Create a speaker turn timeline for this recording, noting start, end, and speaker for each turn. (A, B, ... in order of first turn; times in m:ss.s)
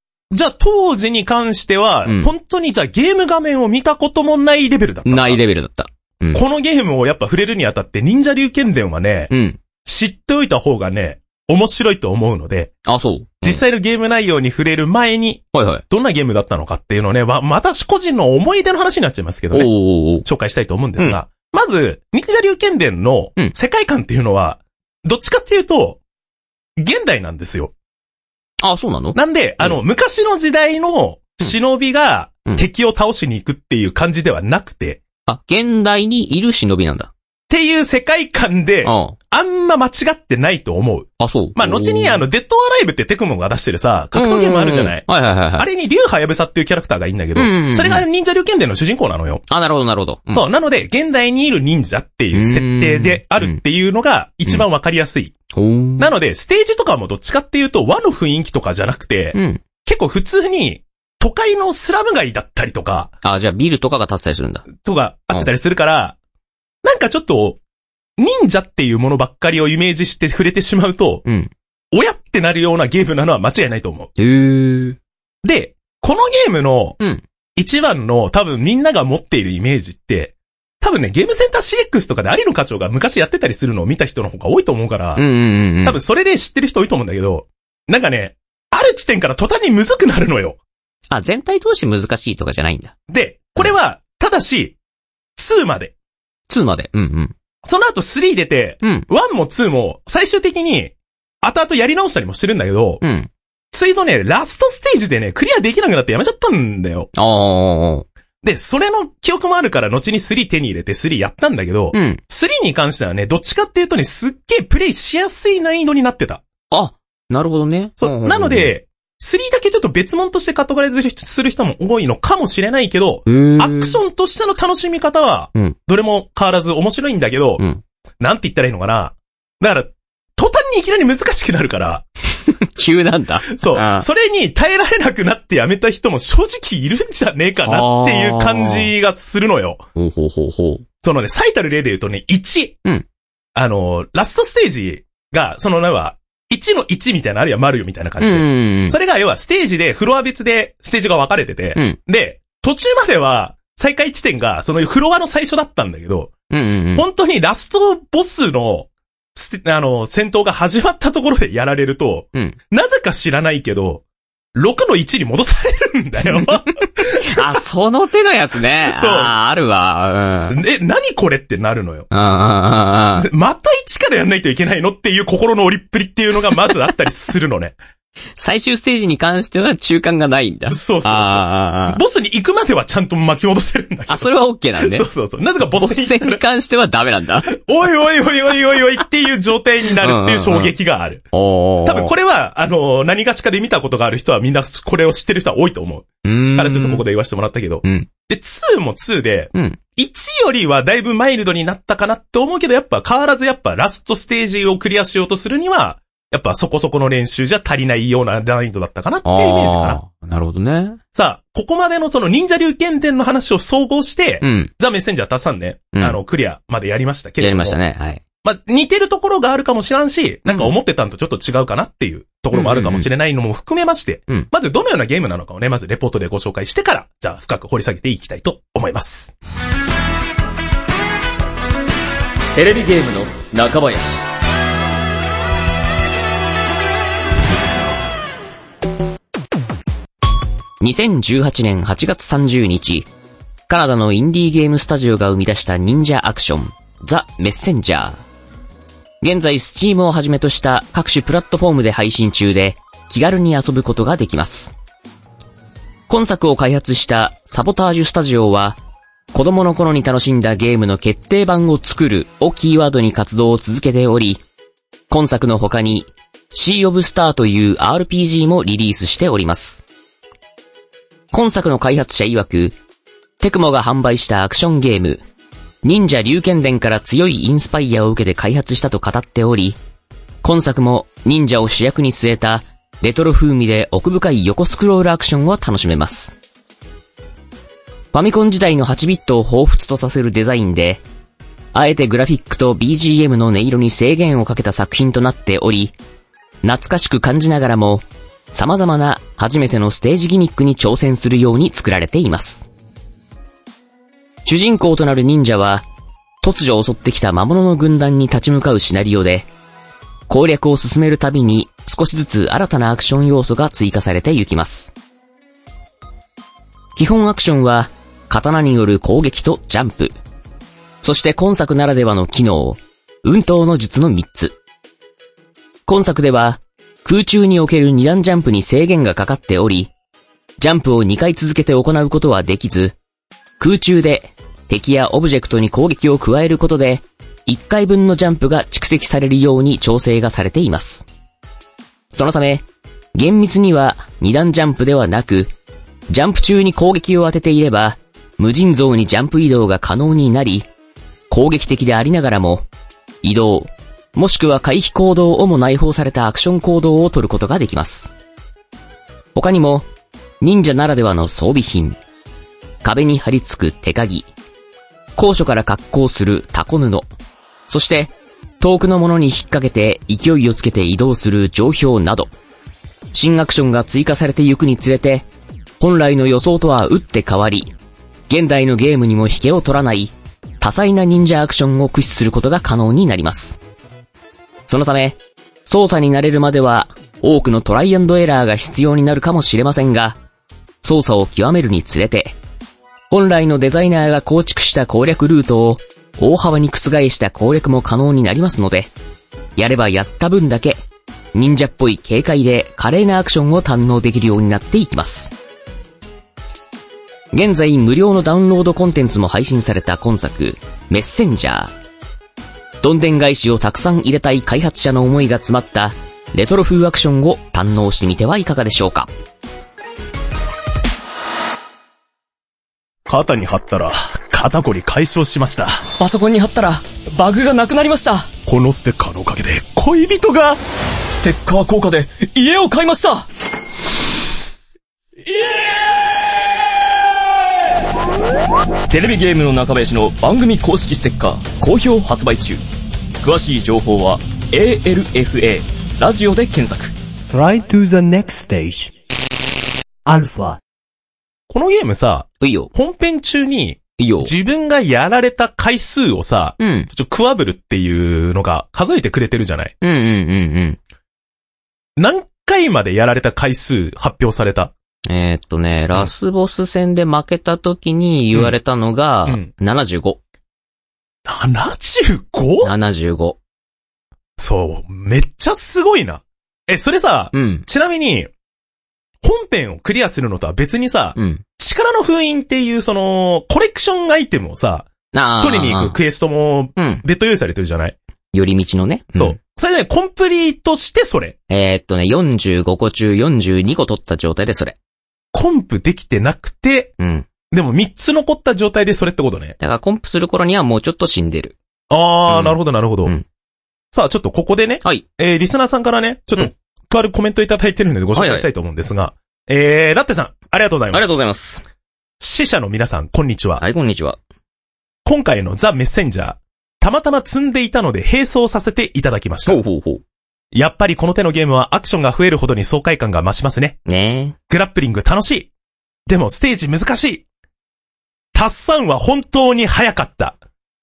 0:00.3-0:05.4 A
0:02.0-0:02.3 B
0:05.0-0:06.4 B
0:06.3-0:09.3 A
0:09.3-0:09.6 B
0:09.8-0:12.7 A
0:12.8-0:13.6 B
0:13.4-0:26.0 A
0:15.5-0:15.8 B
0:19.5-0:20.2 B
0:26.8-0:27.7 A
0:28.6-0:29.8 B
0:29.1-0:35.0 A
0:35.2-0:37.1 B
0:37.5-0:49.4 A
0:38.8-0:39.2 B
0:41.2-0:42.2 B
0:44.1-0:45.7 B
0:47.4-0:48.0 B
0:49.5-0:50.4 B
0:50.3-0:55.3 A
0:52.3-0:53.6 B
0:55.5-0:56.1 B
0:56.0-1:03.1 A
0:59.3-0:59.6 B
1:03.2-1:04.7 B
1:04.8-1:06.2 A
1:06.8-1:07.6 A
1:08.2-1:11.2 A
1:11.2-1:11.5 B
1:11.9-1:14.1 A
1:14.2-1:15.0 B
1:15.4-1:17.0 A
1:17.6-1:25.2 A
1:25.2-1:26.0 B
1:25.8-1:30.6 A
1:31.1-1:32.9 B
1:33.1-1:34.8 A
1:35.4-1:35.9 A
1:36.5-1:37.3 B
1:37.6-1:43.0 A
1:38.8-1:39.1 B
1:43.0-1:43.3 B
1:43.7-1:47.1 A
1:47.1-1:48.0 B
1:48.4-1:56.4 A
1:51.9-1:52.2 B
1:56.7-1:58.7 B
1:58.0-2:07.6 A
2:03.3-2:04.0 B
2:08.2-2:12.0 A
2:12.5-2:14.1 B
2:13.5-2:19.8 A
2:17.6-2:18.9 B
2:20.0-2:20.8 B
2:21.0-2:22.8 A
2:23.5-2:36.3 A
2:28.2-2:29.0 B
2:36.5-2:37.0 B
2:36.9-2:47.5 A
2:46.3-2:50.6 B
2:48.9-2:49.4 A
2:50.5-2:52.1 A
2:52.1-2:53.3 B
2:53.2-2:57.8 A
2:58.4-3:02.0 B
3:00.7-3:06.4 A
3:04.1-3:05.1 B
3:05.7-3:07.6 B
3:07.5-3:11.3 A
3:10.0-3:10.7 B
3:11.3-3:12.1 B
3:11.8-3:30.0 A
3:16.2-3:17.0 B
3:19.5-3:19.8 B
3:29.2-3:31.0 B
3:31.1-3:37.8 A
3:34.4-3:34.7 B
3:35.9-3:36.2 B
3:37.4-3:38.2 B
3:38.4-3:49.3 A
3:40.5-3:40.7 B
3:42.5-3:43.1 B
3:52.5-3:54.1 C
4:00.8-4:03.1 B
4:03.7-4:08.2 B
4:09.2-4:14.7 B
4:16.1-4:18.8 B
4:19.3-4:24.4 B
4:25.1-4:29.8 B
4:31.3-4:32.8 B
4:33.4-4:35.2 B
4:35.8-4:39.8 B
4:40.4-4:46.3 B
4:48.1-4:51.0 B
4:51.7-4:55.9 B
4:56.6-5:02.6 B
5:04.4-5:05.8 B
5:06.4-5:09.5 B
5:10.3-5:14.9 B
5:17.0-5:20.1 B
5:21.0-5:24.6 B
5:25.8-5:29.9 B
5:30.6-5:33.0 B
5:33.6-5:41.0 B
5:42.1-5:45.5 B
5:46.1-5:50.7 B
5:51.3-5:52.7 B
5:53.2-5:58.1 B
5:59.3-5:59.9 B
6:00.4-6:02.0 B
6:02.8-6:04.3 B
6:05.2-6:07.0 B
6:07.7-6:12.3 B
6:13.1-6:15.3 B
6:15.8-6:17.7 B
6:18.3-6:23.6 B
6:24.7-6:30.2 B
6:30.8-6:32.4 B
6:33.1-6:38.9 B
6:39.6-6:40.8 B
6:41.3-6:45.3 B
6:47.3-6:51.7 B
6:52.8-6:59.1 B
7:03.1-7:05.9 A
7:06.0-7:08.3 C
7:08.4-7:10.6 A
7:11.0-7:13.2 C
7:18.9-7:22.6 C
7:23.2-7:26.9 C
7:27.3-7:28.9 D
7:30.0-7:30.6 D
7:31.5-7:39.7 A
7:32.4-7:32.7 B
7:34.0-7:34.3 B
7:36.6-7:36.9 B
7:39.8-7:40.8 B
7:42.0-7:44.7 A
7:45.1-7:50.2 B
7:51.2-7:52.7 A
7:52.6-7:53.4 B
7:54.4-7:58.3 A
7:57.3-7:57.6 B
7:59.2-8:08.0 A
8:01.2-8:01.4 B
8:05.1-8:06.0 B
8:06.8-8:07.0 B
8:08.3-8:09.4 B
8:09.2-8:11.4 A
8:11.5-8:14.8 B
8:15.3-8:16.9 A
8:17.0-8:17.2 B
8:17.5-8:19.6 A
8:19.6-8:21.6 B
8:21.9-8:23.1 A
8:22.3-8:23.2 B
8:23.9-8:31.0 A
8:28.1-8:28.5 B
8:30.9-8:31.6 B
8:32.2-8:33.6 A
8:33.6-8:34.2 B
8:35.0-8:39.6 A
8:39.4-8:40.0 B
8:40.5-8:43.8 A
8:43.8-8:44.3 B
8:44.5-8:45.5 A
8:46.1-8:47.2 A
8:48.3-8:50.4 A